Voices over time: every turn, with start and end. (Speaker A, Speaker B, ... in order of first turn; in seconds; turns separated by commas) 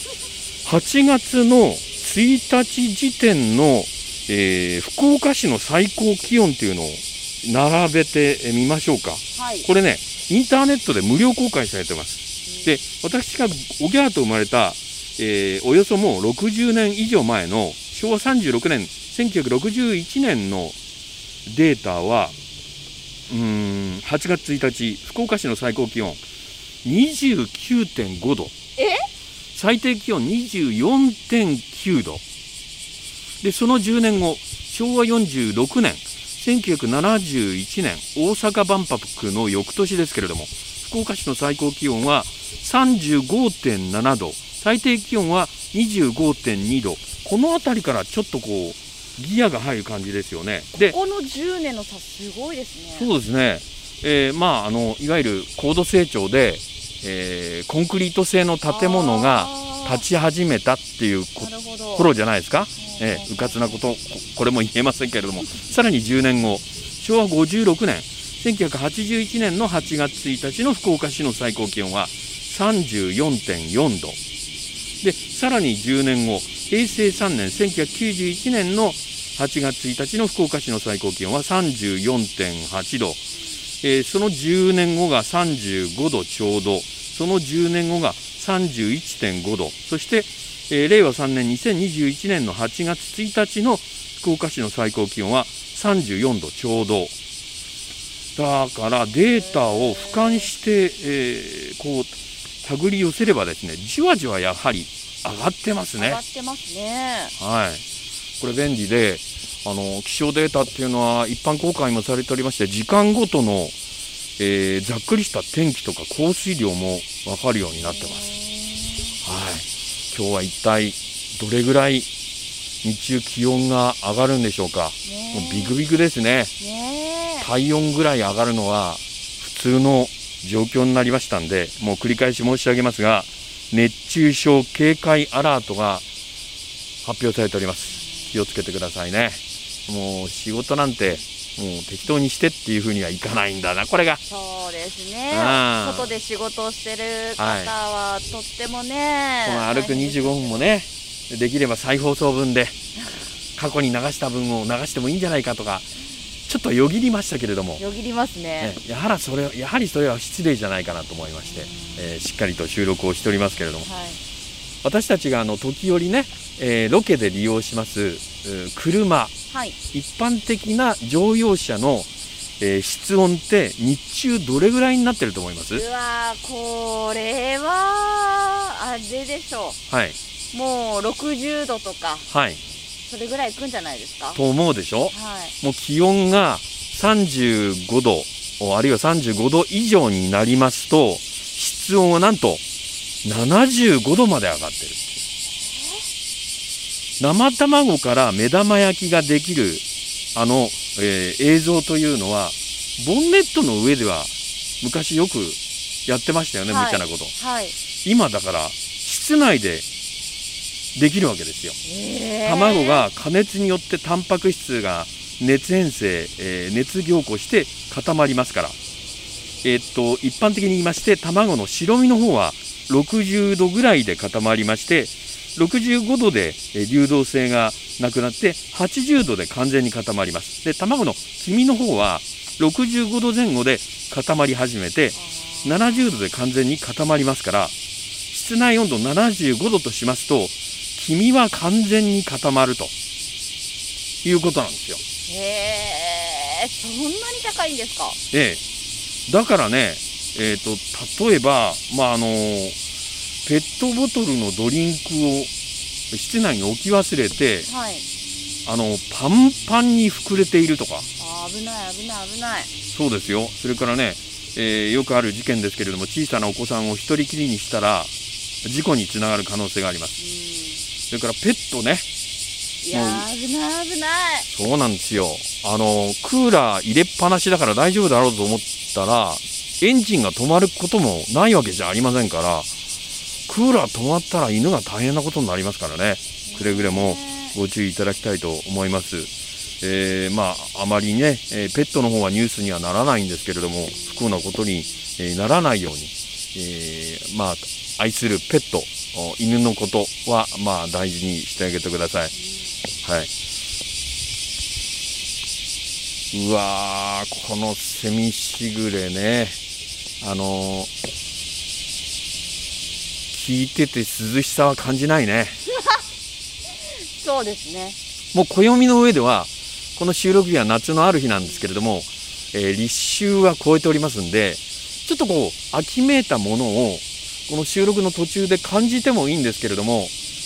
Speaker A: 0.7-20.8, Speaker B: 9.4-9.7, Speaker A: 21.5-22.4, Speaker A: 23.3-26.2, Speaker A: 26.8-28.5, Speaker B: 28.8-29.1, Speaker A: 29.6-32.2, Speaker A: 33.4-51.0, Speaker B: 50.8-53.1, Speaker A: 53.0-74.2, Speaker B: 58.7-60.0, Speaker B: 61.4-62.1, Speaker B: 62.8-63.7, Speaker A: 75.0-83.2, Speaker A: 83.8-97.1, Speaker A: 98.4-102.1, Speaker B: 99.2-100.5, Speaker A: 102.6-106.2, Speaker B: 106.0-107.3, Speaker A: 107.4-107.8, Speaker A: 108.4-113.7, Speaker A: 114.4-118.2, Speaker B: 117.8-119.1, Speaker A: 119.2-122.1, Speaker A: 122.8-126.5, Speaker B: 125.0-125.7, Speaker B: 126.6-127.5, Speaker A: 127.4-136.0, Speaker A: 137.0-144.2, Speaker B: 144.3-150.7, Speaker A: 145.3-146.1, Speaker A: 147.4-147.7, Speaker A: 149.4-152.8, Speaker A: 153.6-155.9, Speaker A: 156.5-157.8, Speaker B: 157.8-158.8, Speaker A: 158.6-163.9, Speaker B: 161.5-162.0, Speaker B: 163.9-164.2, Speaker A: 164.8-169.3, Speaker B: 169.5-169.8, Speaker A: 169.9-172.1, Speaker A: 172.6-175.8, Speaker B: 175.7-179.8, Speaker A: 179.9-180.2, Speaker B: 180.5-182.2, Speaker A: 182.3-182.6, Speaker B: 183.1-184.4, Speaker A: 184.3-192.6, Speaker B: 185.1-185.5, Speaker A: 193.2-195.2, Speaker B: 195.5-196.0, Speaker A: 197.2-199.8, Speaker A: 200.3-207.3, Speaker B: 206.7-207.8, Speaker A: 208.0-209.9, Speaker A: 210.9-211.8, Speaker B: 211.8-213.1, Speaker A: 212.4-218.8, Speaker A: 219.6-237.7, Speaker B: 235.2-236.2, Speaker A: 238.3-242.9, Speaker A: 244.2-245.0, Speaker B: 245.3-248.2, Speaker A: 248.3-248.6, Speaker A: 249.3-252.8, Speaker A: 253.5-255.5, Speaker A: 256.1-257.7, Speaker B: 257.7-258.1, Speaker A: 258.6-261.1, Speaker B: 261.2-262.7, Speaker A: 262.9-268.1, Speaker A: 268.6-270.1, Speaker B: 270.2-270.8, Speaker A: 271.1-272.1, Speaker B: 272.8-274.5, Speaker A: 272.9-273.2, Speaker A: 274.5-282.7, Speaker A: 283.5-289.3, Speaker B: 286.5-287.6, Speaker A: 289.8-302.3, Speaker B: 293.9-294.4, Speaker B: 302.4-302.7, Speaker A: 303.0-303.3, Speaker A: 306.3-309.6, Speaker A: 310.2-310.9, Speaker A: 313.3-315.6, Speaker B: 316.8-318.0, Speaker A: 318.3-330.1